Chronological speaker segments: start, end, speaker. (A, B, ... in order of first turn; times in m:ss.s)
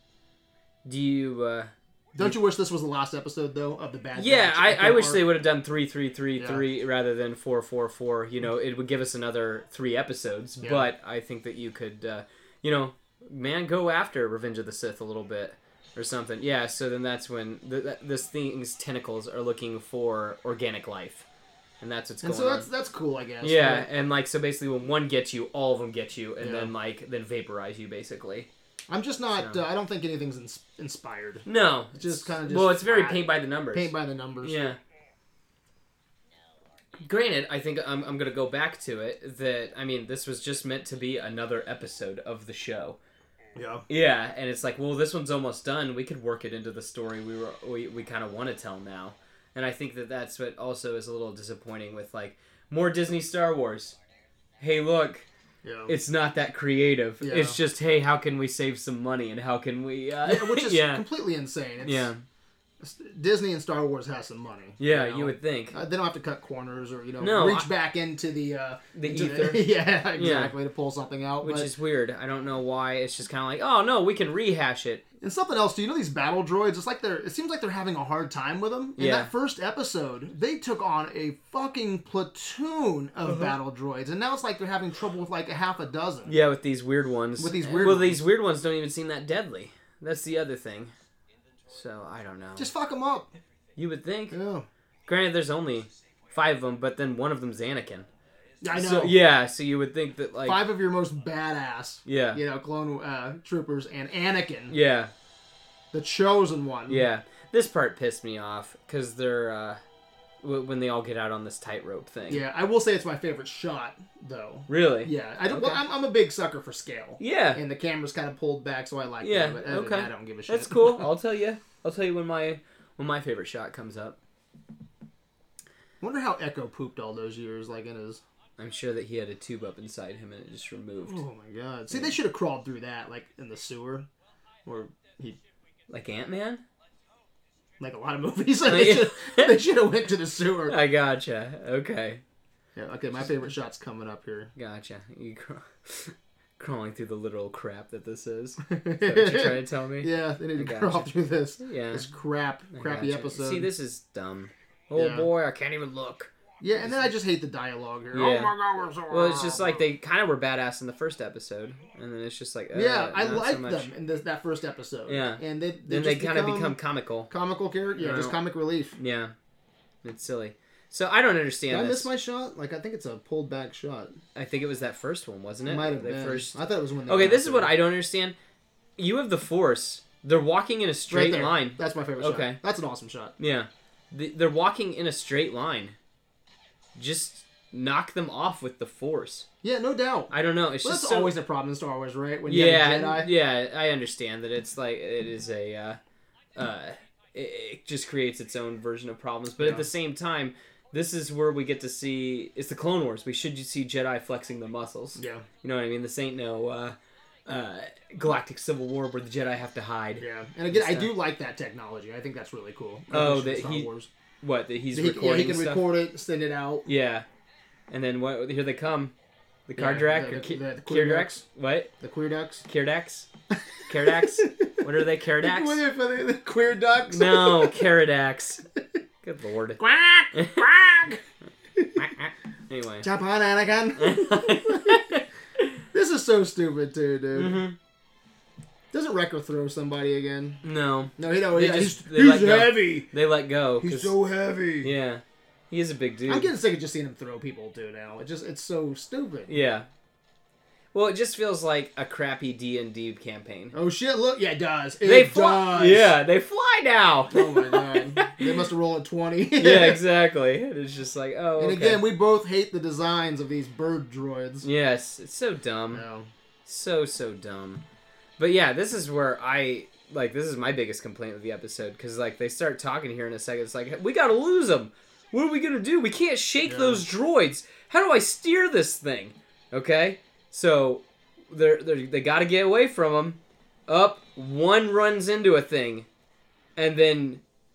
0:00.8-0:02.4 A
0:02.2-0:05.2 B
0:04.2-0:21.3 A
0:06.4-0:06.6 B
0:10.6-0:10.9 B
0:21.8-0:22.7 A
0:22.2-0:23.9 B
0:23.4-0:28.5 A
0:26.4-0:26.7 B
0:28.9-0:34.7 B
0:31.4-0:33.9 A
0:34.4-0:34.8 A
0:37.0-0:43.0 A
0:43.6-0:43.8 B
0:43.9-0:54.0 A
0:54.6-0:55.3 A
0:55.6-0:55.9 B
0:55.9-1:01.0 A
0:57.2-0:57.6 B
1:00.2-1:02.1 B
1:01.8-1:02.2 A
1:02.8-1:11.7 B
1:04.8-1:05.8 A
1:07.2-1:07.7 A
1:08.9-1:10.5 A
1:11.4-1:15.0 A
1:15.2-1:26.3 B
1:19.0-1:19.3 A
1:26.3-1:30.9 A
1:27.4-1:28.2 B
1:31.7-1:32.7 A
1:32.6-1:33.3 B
1:33.8-1:34.4 A
1:34.3-1:34.7 B
1:35.1-1:38.1 A
1:38.6-1:39.2 B
1:38.7-1:40.6 A
1:40.4-1:44.8 B
1:42.0-1:42.4 A
1:44.7-1:45.1 A
1:45.9-1:47.0 B
1:46.9-1:49.8 A
1:50.4-1:52.4 A
1:52.3-2:01.1 B
1:54.7-1:55.8 A
1:57.2-1:57.6 A
1:59.2-2:04.2 A
2:06.0-2:08.2 B
2:08.6-2:11.2 A
2:11.1-2:14.1 B
2:14.6-2:15.4 B
2:15.9-2:16.6 A
2:17.8-2:20.8 B
2:18.6-2:19.6 A
2:20.7-2:22.2 A
2:22.8-2:24.5 B
2:24.6-2:31.1 A
2:28.6-2:33.7 B
2:31.6-2:32.1 A
2:32.7-2:37.0 A
2:35.0-2:35.3 B
2:36.6-2:39.8 B
2:38.1-2:38.5 A
2:39.1-2:43.9 A
2:42.7-2:46.8 B
2:45.1-2:47.3 A
2:47.3-2:48.9 B
2:48.0-2:48.4 A
2:49.0-2:49.3 A
2:50.0-2:52.1 A
2:51.7-2:54.1 B
2:54.3-2:58.4 A
2:55.7-2:57.8 B
2:59.0-3:02.6 A
3:01.1-3:03.3 B
3:03.4-3:06.0 A
3:07.0-3:09.5 A
3:09.6-3:13.3 B
3:10.3-3:11.3 A
3:12.5-3:16.0 A
3:16.5-3:31.1 A
3:19.6-3:19.9 B
3:25.2-3:25.4 B
3:30.2-3:34.1 B
3:33.1-3:33.9 A
3:34.4-3:35.8 A
3:34.9-3:36.8 B
3:36.8-3:37.2 A
3:37.9-3:39.1 A
3:39.7-3:41.9 A
3:39.8-3:41.4 B
3:42.0-3:42.6 B
3:42.6-3:43.3 A
3:43.9-3:45.8 A
3:43.9-3:47.9 B
3:47.1-3:48.6 A
3:49.2-3:49.8 A
3:49.8-3:51.2 B
3:50.3-3:50.7 A
3:51.8-3:52.1 B
3:52.0-3:53.1 A
3:53.0-3:55.0 B
3:54.0-3:55.8 A
3:55.9-3:57.6 B
3:57.3-3:57.8 A
3:58.9-4:00.6 B
4:00.6-4:04.1 A
4:01.2-4:03.1 B
4:03.8-4:04.9 B
4:04.8-4:06.5 A
4:06.3-4:09.5 B
4:09.5-4:09.9 A
4:10.9-4:13.7 A
4:13.7-4:16.1 B
4:15.0-4:18.5 A
4:17.3-4:20.0 B
4:19.6-4:22.0 A
4:21.6-4:24.7 B
4:24.6-4:26.0 A
4:25.9-4:26.3 B
4:26.6-4:27.8 A
4:28.4-4:46.1 A
4:36.6-4:37.0 B
4:46.8-4:47.4 A